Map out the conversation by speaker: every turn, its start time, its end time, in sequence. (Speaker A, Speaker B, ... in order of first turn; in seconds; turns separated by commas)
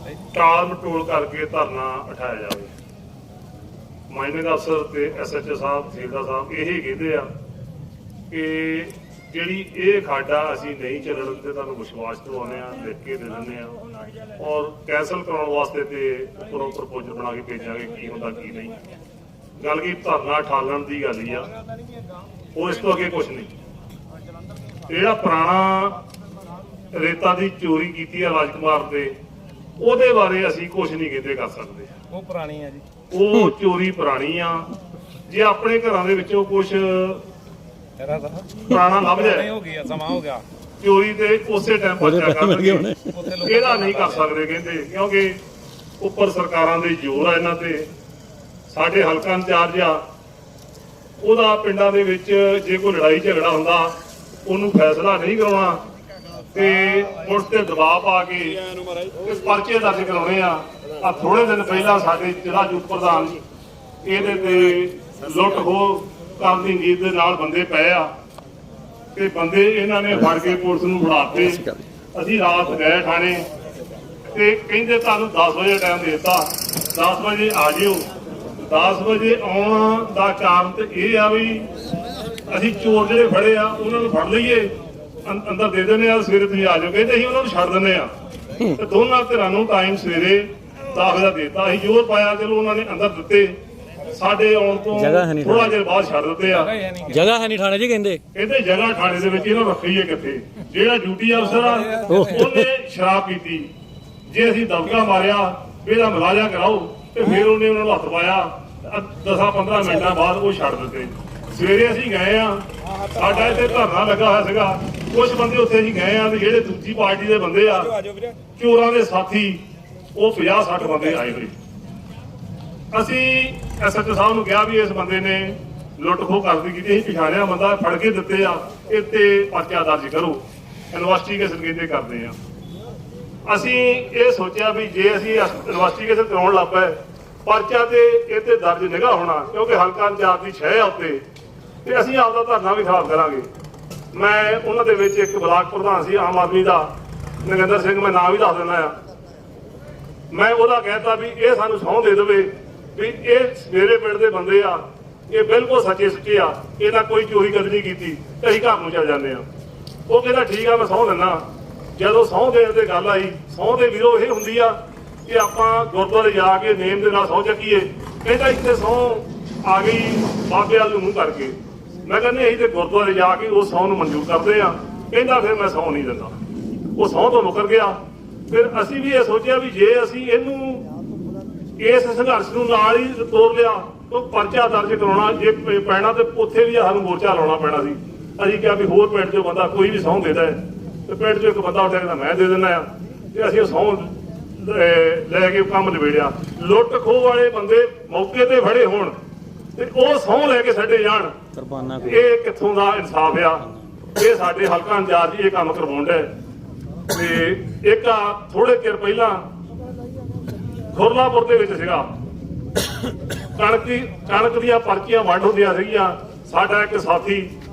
Speaker A: 0.3-2.7, Speaker A: 4.1-7.3, Speaker A: 8.3-13.8, Speaker A: 14.3-18.8, Speaker A: 19.6-21.5, Speaker A: 22.5-23.5, Speaker A: 24.9-26.1, Speaker A: 26.9-29.2, Speaker A: 29.8-32.0, Speaker B: 32.1-32.9, Speaker A: 33.1-34.7, Speaker A: 35.3-37.3, Speaker B: 38.0-40.4, Speaker A: 38.6-39.5, Speaker A: 40.8-45.4, Speaker C: 42.0-43.2, Speaker B: 43.1-44.3, Speaker A: 46.0-47.9, Speaker A: 48.7-50.0, Speaker A: 51.2-55.8, Speaker A: 56.5-58.7, Speaker A: 59.2-63.4, Speaker A: 64.0-68.1, Speaker A: 69.2-73.5, Speaker C: 71.5-71.8, Speaker A: 74.3-81.7, Speaker A: 82.5-96.7, Speaker C: 94.9-95.8, Speaker B: 96.6-97.3, Speaker C: 97.1-98.2, Speaker A: 98.3-103.7, Speaker B: 101.5-102.5, Speaker C: 102.1-102.7, Speaker A: 104.3-118.0, Speaker A: 118.6-119.6, Speaker A: 120.2-121.5, Speaker A: 122.9-132.4, Speaker A: 133.5-141.2, Speaker A: 141.8-143.5, Speaker A: 144.1-148.9, Speaker A: 150.3-159.5, Speaker A: 160.1-176.4, Speaker A: 177.0-180.9, Speaker A: 181.8-199.2, Speaker A: 199.8-201.4, Speaker C: 201.5-202.3, Speaker A: 202.0-206.3, Speaker A: 207.1-209.4, Speaker A: 210.9-212.1, Speaker A: 213.6-217.5